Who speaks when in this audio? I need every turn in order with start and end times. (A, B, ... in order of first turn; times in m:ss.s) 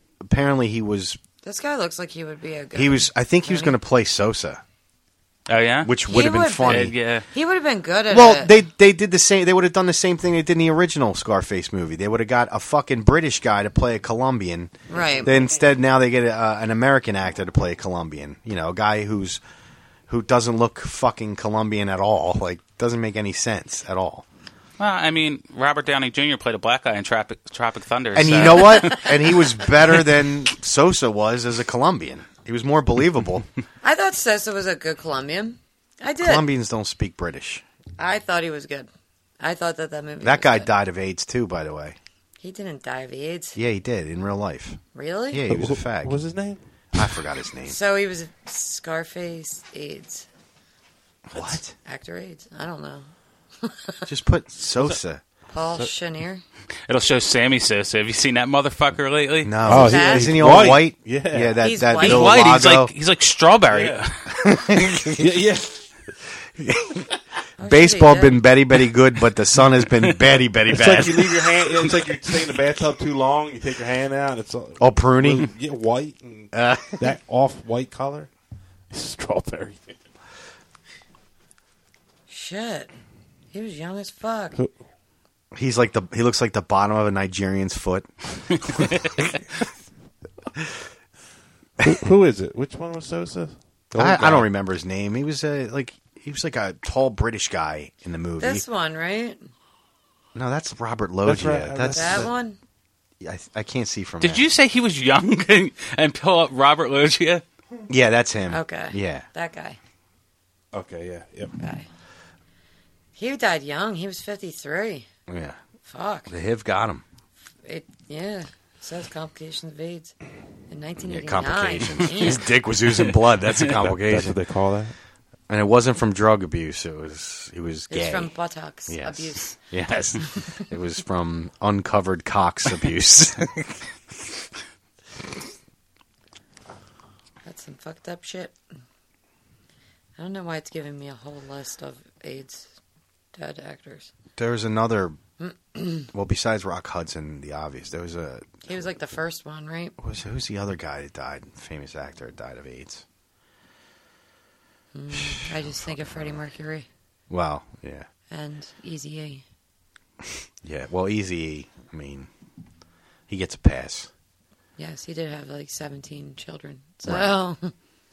0:00.2-0:01.2 A
0:01.4-0:03.8 B
0:02.7-0:04.6 A
0:05.5-0:05.9 C
0:05.8-0:07.0 A
0:06.1-0:08.5 B
0:06.7-0:07.2 C
0:08.1-0:19.4 A
0:14.9-0:15.3 B
0:20.1-0:24.3 A
0:24.8-0:29.7 C
0:28.2-0:33.5 A
0:28.6-0:29.0 B
0:33.8-0:36.5 B
0:36.2-0:37.6 A
0:38.0-0:38.9 B
0:39.4-0:40.7 B
0:40.2-0:42.0 A
0:42.4-0:43.6 B
0:43.6-0:44.8 A
0:44.9-0:45.4 B
0:45.3-0:46.2 A
0:45.5-0:47.0 D
0:47.0-0:47.8 A
0:47.7-0:50.3 B
0:51.3-0:51.7 A
0:51.7-0:53.1 B
0:53.6-0:54.0 B
0:54.1-0:55.2 A
0:55.5-0:56.4 B
0:56.9-0:59.6 C
0:59.4-1:02.9 A
0:59.6-1:01.7 D
0:59.7-1:00.5 B
1:01.6-1:02.3 B
1:02.0-1:04.1 C
1:03.7-1:04.0 D
1:04.4-1:05.3 A
1:05.2-1:05.8 D
1:06.6-1:07.1 A
1:07.6-1:08.4 B
1:07.6-1:11.5 A
1:10.7-1:18.3 D
1:14.8-1:15.5 A
1:16.5-1:17.1 A
1:18.9-1:19.9 D
1:22.3-1:22.9 B
1:23.5-1:24.6 B
1:25.5-1:29.2 A
1:31.8-1:34.5 D
1:34.0-1:38.6 A
1:38.4-1:39.4 B
1:40.4-1:42.3 A
1:41.2-1:42.3 D
1:41.9-1:42.6 B
1:43.2-1:44.4 A
1:44.2-1:47.4 C
1:47.9-1:49.3 A
1:48.5-1:49.8 B
1:50.7-1:51.5 D
1:51.6-1:51.9 B
1:53.2-1:55.1 B
1:55.3-1:55.6 A
1:55.9-1:56.3 B
1:56.3-1:57.0 A
1:57.6-2:00.1 B
2:00.7-2:02.4 B
2:01.0-2:04.4 A
2:03.8-2:04.9 D
2:05.5-2:08.3 A
2:07.9-2:09.6 B
2:08.9-2:13.8 A
2:17.4-2:18.6 B
2:20.2-2:22.7 B
2:23.4-2:24.1 B
2:24.4-2:25.2 A
2:25.4-2:26.1 B
2:26.1-2:28.9 A
2:28.7-2:30.0 B
2:30.0-2:33.0 A
2:34.9-2:36.9 B
2:35.1-2:36.4 A
2:37.3-2:38.1 A
2:38.3-2:39.4 B
2:40.6-2:42.3 A
2:43.3-2:44.1 A
2:44.8-2:47.7 B
2:47.0-2:47.3 A